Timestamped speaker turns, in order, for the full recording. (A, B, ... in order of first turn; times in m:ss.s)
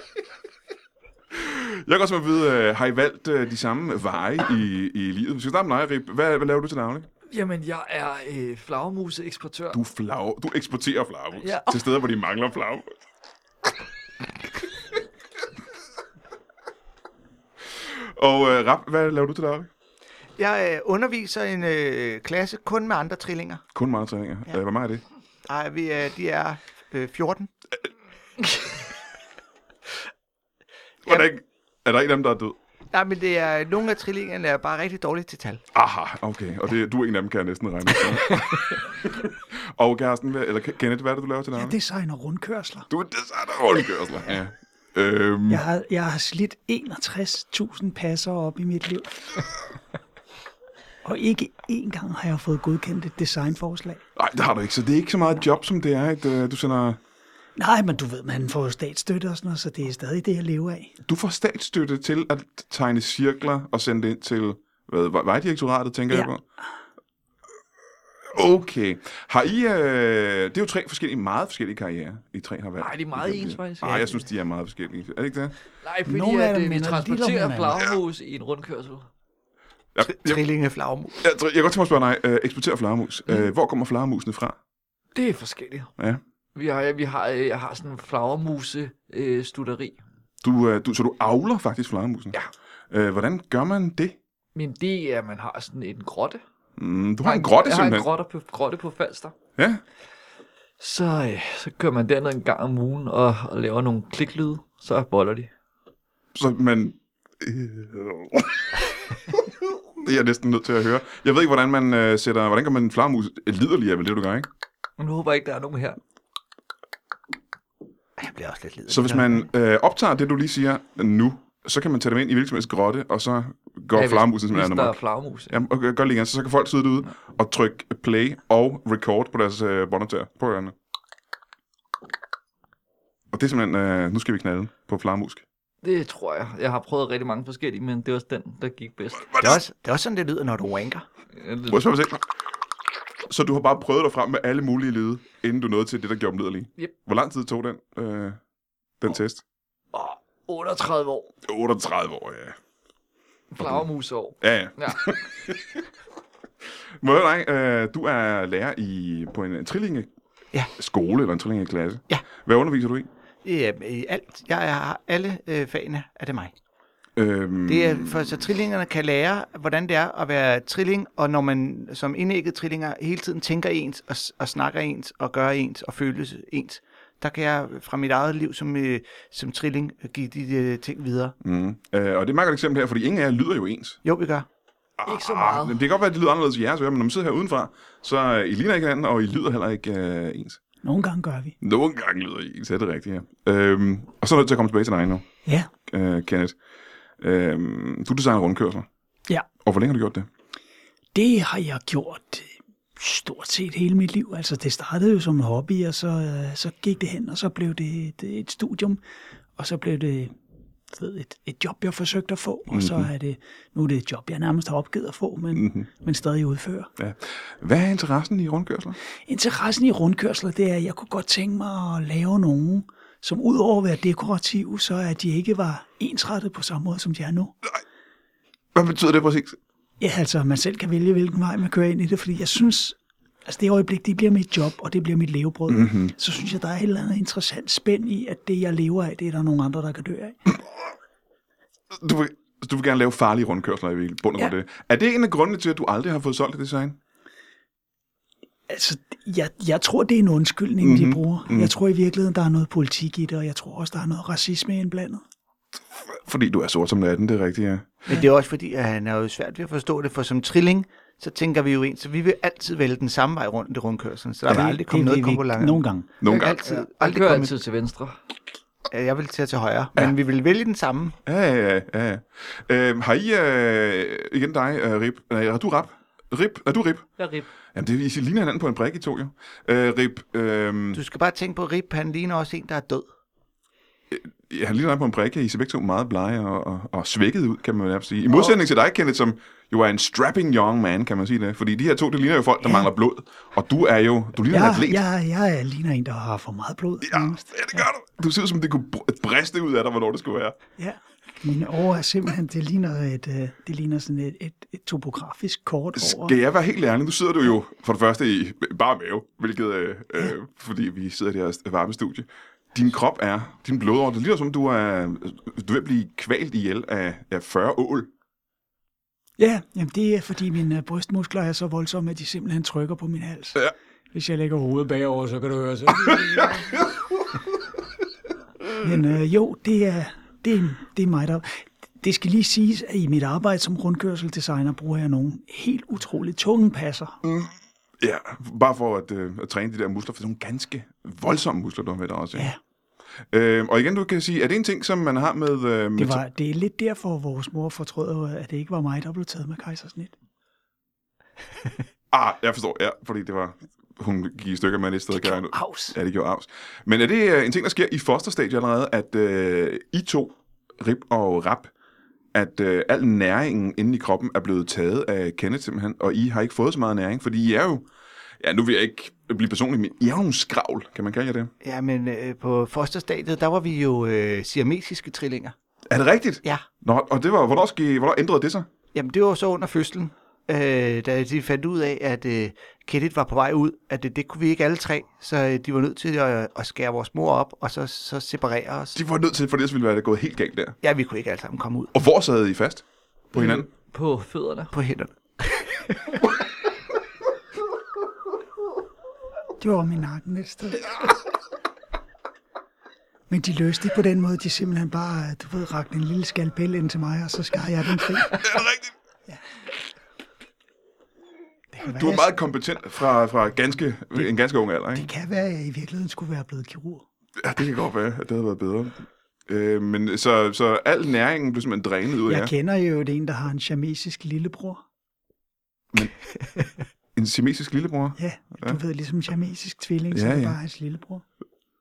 0:01.3-0:07.1 A
0:07.3-0:09.8 B
0:09.7-0:12.9 A
0:11.4-0:11.8 B
0:18.2-0:19.7 A
0:20.4-0:23.6 C
0:23.7-0:25.0 A
0:25.4-0:27.5 C
0:31.0-0:32.6 A
0:32.9-0:35.6 C
0:35.7-0:41.8 A
0:41.6-0:42.9 D
0:42.9-0:45.6 A
0:45.5-0:49.3 D
0:51.0-0:54.0 D
0:54.2-0:57.0 A
0:57.6-1:01.0 D
1:01.1-1:06.4 A
1:08.3-1:15.6 A
1:12.8-1:14.2 B
1:15.8-1:19.1 B
1:16.1-1:17.8 D
1:20.0-1:20.4 A
1:20.0-1:21.2 C
1:21.2-1:24.6 A
1:25.2-1:25.9 B
1:26.6-1:30.0 B
1:30.4-1:32.4 A
1:32.9-1:34.2 A
1:34.6-1:36.4 B
1:36.8-1:38.1 A
1:37.2-1:39.3 B
1:40.8-1:45.5 B
1:46.4-1:48.7 A
1:50.0-1:54.5 A
1:55.0-1:56.0 B
1:58.2-1:59.5 C
1:58.9-2:05.0 A
2:03.9-2:05.5 B
2:05.5-2:10.7 A
2:13.3-2:15.4 A
2:15.8-2:19.4 B
2:19.3-2:19.6 A
2:19.4-2:21.1 C
2:21.4-2:21.8 B
2:21.7-2:22.3 A
2:23.3-2:28.4 A
2:29.0-2:29.4 A
2:29.9-2:31.3 B
2:31.4-2:32.6 A
2:33.5-2:35.0 B
2:33.6-2:33.8 A
2:34.4-2:35.8 A
2:37.0-2:40.1 A
2:40.7-2:43.1 A
2:43.4-2:46.5 C
2:47.2-2:48.4 A
2:47.7-3:01.4 C
3:01.4-3:04.0 A
3:04.0-3:04.5 C
3:05.0-3:10.6 A
3:05.1-3:05.8 B
3:10.8-3:11.6 D
3:11.6-3:15.3 A
3:15.9-3:16.6 A
3:17.2-3:18.9 A
3:19.6-3:20.3 A
3:21.1-3:29.0 D
3:29.6-3:30.3 D
3:30.9-3:36.9 D
3:32.7-3:33.1 A
3:35.5-3:35.9 A
3:37.0-3:39.0 A
3:39.3-3:47.6 D
3:48.8-3:49.6 A
3:50.0-4:00.4 D
3:55.7-3:56.1 A
4:01.9-4:07.0 A
4:08.7-4:15.2 D
4:10.8-4:11.7 A
4:16.2-4:18.1 A
4:18.1-4:27.5 C
4:24.5-4:26.2 D
4:26.2-4:26.6 A
4:26.4-4:28.2 B
4:28.9-4:31.2 C
4:31.3-4:37.1 A
4:37.2-4:37.5 B
4:37.7-4:41.0 A
4:41.0-4:43.1 C
4:44.1-4:55.0 A
4:52.6-4:52.9 D
4:54.5-4:57.9 D
4:57.0-5:00.6 A
5:00.8-5:06.4 D
5:06.0-5:18.1 A
5:19.4-5:26.6 D
5:26.0-5:26.8 A
5:28.8-5:37.2 D
5:37.2-5:42.5 A
5:43.3-5:46.2 A
5:46.0-5:50.1 D
5:52.1-6:01.7 A
5:55.1-5:56.0 D
6:02.3-6:07.9 A
6:08.4-6:11.5 A
6:11.6-6:15.6 C
6:15.9-6:18.7 A
6:18.9-6:29.0 C
6:29.0-6:30.8 A
6:30.8-6:31.9 C
6:31.9-6:33.7 A
6:33.4-6:34.7 B
6:34.7-6:36.1 C
6:39.6-6:41.0 D
6:43.3-6:48.5 D
6:48.4-6:48.9 A
6:51.7-6:52.3 D
6:51.8-6:55.1 A
6:55.0-6:57.0 D
6:57.4-7:02.5 A
7:02.2-7:04.8 D
7:07.2-7:08.8 A
7:08.2-7:11.2 D
7:10.1-7:10.6 A